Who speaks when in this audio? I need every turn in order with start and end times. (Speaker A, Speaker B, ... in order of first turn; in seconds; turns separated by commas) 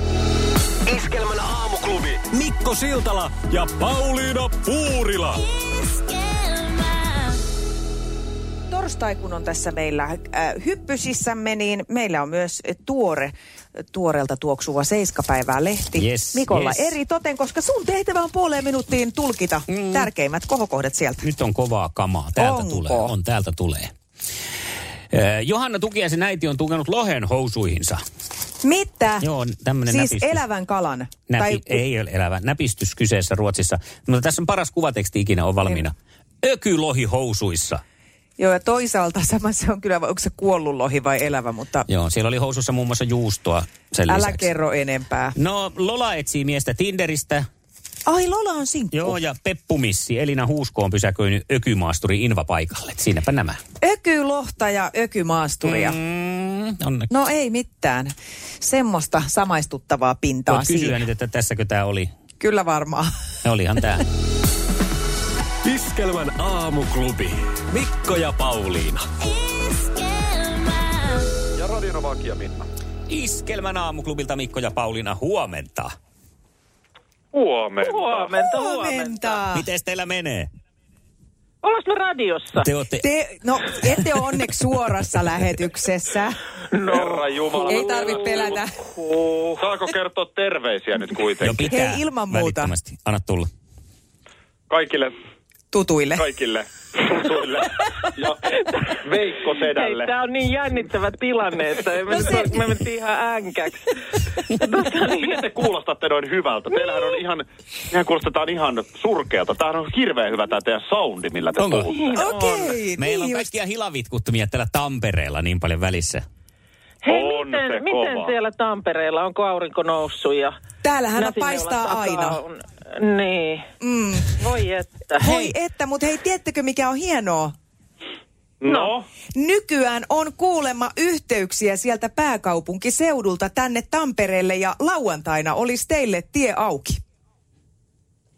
Speaker A: 4.6-5.2, Speaker B: 8.7-13.3, Speaker B: 13.9-21.3, Speaker C: 15.9-16.9, Speaker C: 19.7-20.1, Speaker C: 21.2-23.9, Speaker B: 22.4-23.1, Speaker C: 25.1-28.0, Speaker B: 28.6-29.3, Speaker C: 29.2-30.4, Speaker B: 29.9-31.8, Speaker C: 31.3-37.8, Speaker B: 38.4-41.9, Speaker C: 41.9-44.5, Speaker B: 44.1-45.4, Speaker C: 45.4-47.5, Speaker B: 48.1-49.2, Speaker C: 48.9-53.6, Speaker B: 53.8-56.0, Speaker C: 55.6-57.1, Speaker B: 57.1-61.0, Speaker C: 60.5-62.1, Speaker B: 62.4-63.1, Speaker C: 63.4-64.0, Speaker A: 65.9-67.1, Speaker A: 67.8-68.9, Speaker D: 71.5-72.7, Speaker C: 73.1-75.9, Speaker D: 77.3-78.3, Speaker E: 77.8-79.4, Speaker B: 78.3-79.7, Speaker C: 79.5-80.5, Speaker E: 81.6-82.7, Speaker C: 82.6-83.0, Speaker B: 83.0-86.4, Speaker E: 86.7-89.7, Speaker D: 86.9-88.6, Speaker B: 87.7-88.7, Speaker D: 89.6-91.7, Speaker C: 91.4-93.5, Speaker B: 91.7-92.7, Speaker D: 94.7-95.1, Speaker B: 95.7-96.3, Speaker D: 96.2-98.4, Speaker D: 99.0-100.1, Speaker E: 99.5-105.5, Speaker B: 102.1-102.6, Speaker D: 105.0-111.9, Speaker C: 111.6-112.3, Speaker E: 111.9-112.6, Speaker B: 112.2-113.5, Speaker C: 113.0-116.2, Speaker E: 117.0-120.5, Speaker D: 117.1-118.3, Speaker B: 120.8-122.4, Speaker E: 121.2-123.7, Speaker B: 123.8-124.4, Speaker E: 124.2-125.3, Speaker B: 125.2-127.5, Speaker C: 125.2-125.5, Speaker D: 128.6-129.0, Speaker E: 128.7-128.9, Speaker B: 129.3-137.0